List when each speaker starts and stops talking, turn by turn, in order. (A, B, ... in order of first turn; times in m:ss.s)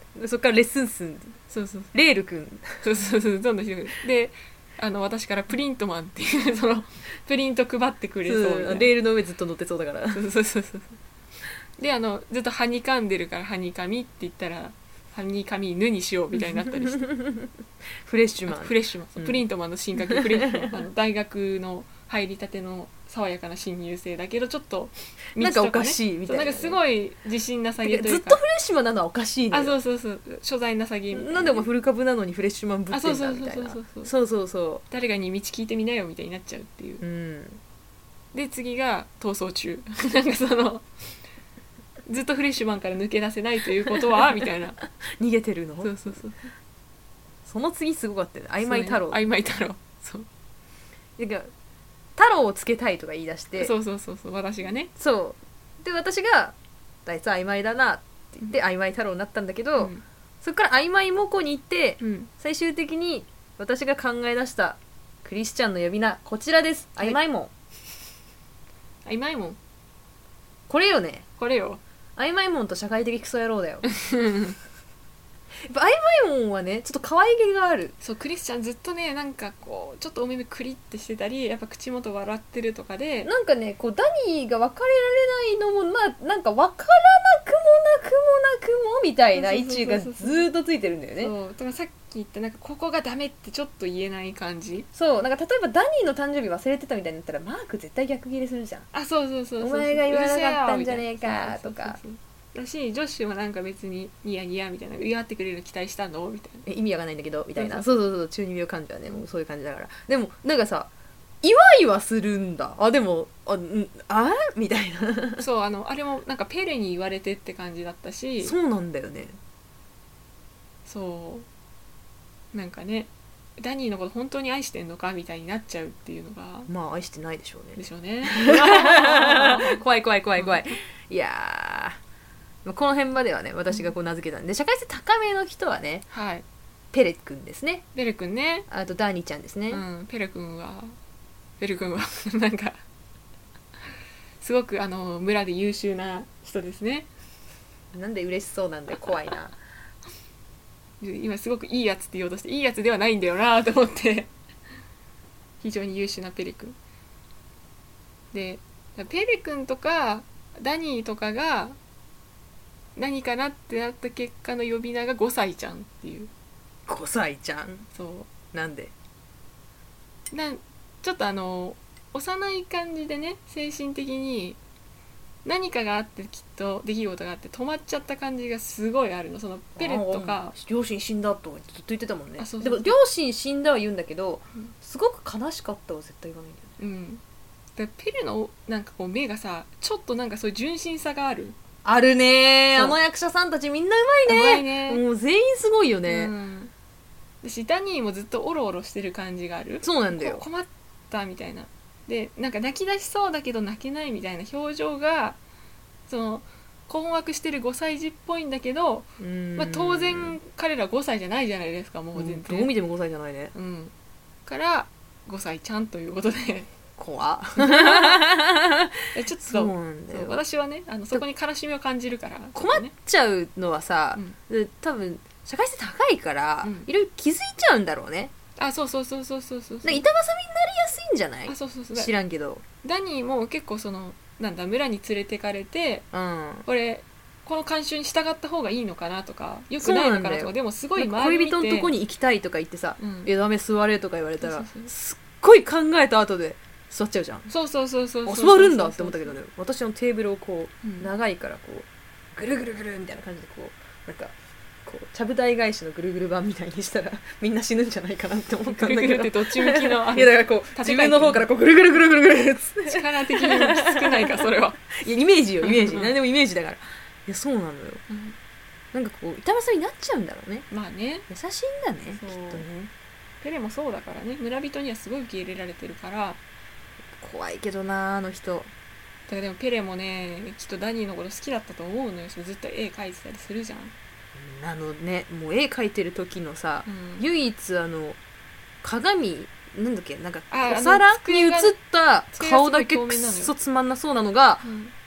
0:00.1-0:01.4 A
0:01.5-0:01.9 B
0:01.9-0:02.8 A
0:02.8-0:08.9 B
0:08.2-0:10.2 A
0:10.1-0:11.0 B
0:11.8-0:17.1 B
0:16.4-0:17.5 A
0:18.0-0:19.4 A
0:18.5-0:28.4 B
0:20.0-0:20.8 A
0:25.4-0:26.8 A
0:27.8-0:29.8 A
0:29.5-0:31.7 B
0:31.1-0:34.8 A
0:32.9-0:34.1 B
0:34.9-0:37.0 B
0:37.0-0:37.6 A
0:38.3-0:40.9 B
0:42.0-0:44.8 B
0:45.1-0:46.2 A
0:45.8-0:46.5 B
0:47.4-0:49.2 A
0:48.6-0:50.3 B
0:51.2-0:51.5 A
0:52.2-0:53.7 A
0:53.6-0:54.9 B
0:55.0-1:07.5 A
0:59.8-1:00.0 B
1:02.0-1:02.3 B
1:09.0-1:09.6 B
1:10.7-1:11.2 A
1:11.4-1:11.8 B
1:12.2-1:13.9 A
1:13.9-1:14.6 B
1:15.6-1:17.9 A
1:18.0-1:23.3 B
1:23.2-1:31.3 A
1:29.4-1:30.5 B
1:31.2-1:34.9 B
1:35.0-1:38.9 A
1:38.9-1:46.6 B
1:39.6-1:42.0 A
1:46.6-1:50.9 A
1:47.5-1:47.9 B
1:51.4-1:55.4 A
1:55.4-1:58.5 B
1:58.4-1:59.4 A
2:00.9-2:01.5 B
2:02.5-2:06.7 B
2:06.7-2:12.0 A
2:07.8-2:09.8 B
2:10.4-2:10.6 B
2:12.6-2:16.0 A
2:16.1-2:16.4 B
2:16.9-2:17.8 A
2:18.0-2:18.7 B
2:18.7-2:19.8 A
2:19.7-2:21.0 B
2:21.6-2:22.8 B
2:24.4-2:27.1 B
2:27.9-2:29.6 A
2:31.0-2:34.3 B
2:35.6-2:36.8 B
2:38.3-2:41.8 B
2:43.0-2:46.3 B
2:46.9-2:47.9 A
2:47.9-2:48.3 B
2:48.5-2:48.9 A
2:50.3-2:54.6 B
2:55.4-3:00.5 B
2:59.8-3:06.7 A
3:02.4-3:03.0 B
3:06.8-3:07.2 B
3:07.8-3:11.6 B
3:11.8-3:16.3 A
3:14.2-3:15.0 B
3:16.0-3:16.7 B
3:17.4-3:25.4 B
3:19.8-3:20.4 A
3:26.1-3:32.7 B
3:29.2-3:30.4 A
3:32.1-3:33.5 A
3:33.5-3:33.9 B
3:34.5-3:36.7 B
3:37.0-3:40.4 A
3:37.6-3:38.2 B
3:39.1-3:42.9 B
3:42.5-3:48.3 A
3:46.6-3:46.9 B
3:48.6-3:50.0 B
3:49.8-3:52.6 A
3:51.5-3:52.1 B
3:52.8-3:56.1 B
3:56.1-3:56.6 A
3:56.6-4:01.9 B
3:59.8-4:07.5 A
4:03.0-4:03.3 B
4:04.4-4:04.9 B
4:07.5-4:09.4 B
4:08.2-4:14.3 A
4:10.8-4:11.1 B
4:14.8-4:28.0 A
4:18.7-4:21.4 B
4:22.9-4:24.9 B
4:25.6-4:26.1 B
4:28.1-4:28.4 B
4:28.9-4:30.6 A
4:30.7-4:31.3 B
4:31.3-4:32.9 A
4:32.1-4:32.6 B
4:33.4-4:36.4 B
4:37.1-4:38.7 A
4:39.3-4:43.9 B
4:44.4-4:48.2 A
4:46.9-4:47.2 B
4:48.8-4:54.6 A
4:50.5-4:51.8 B
4:52.3-4:53.5 B
4:54.6-4:54.9 B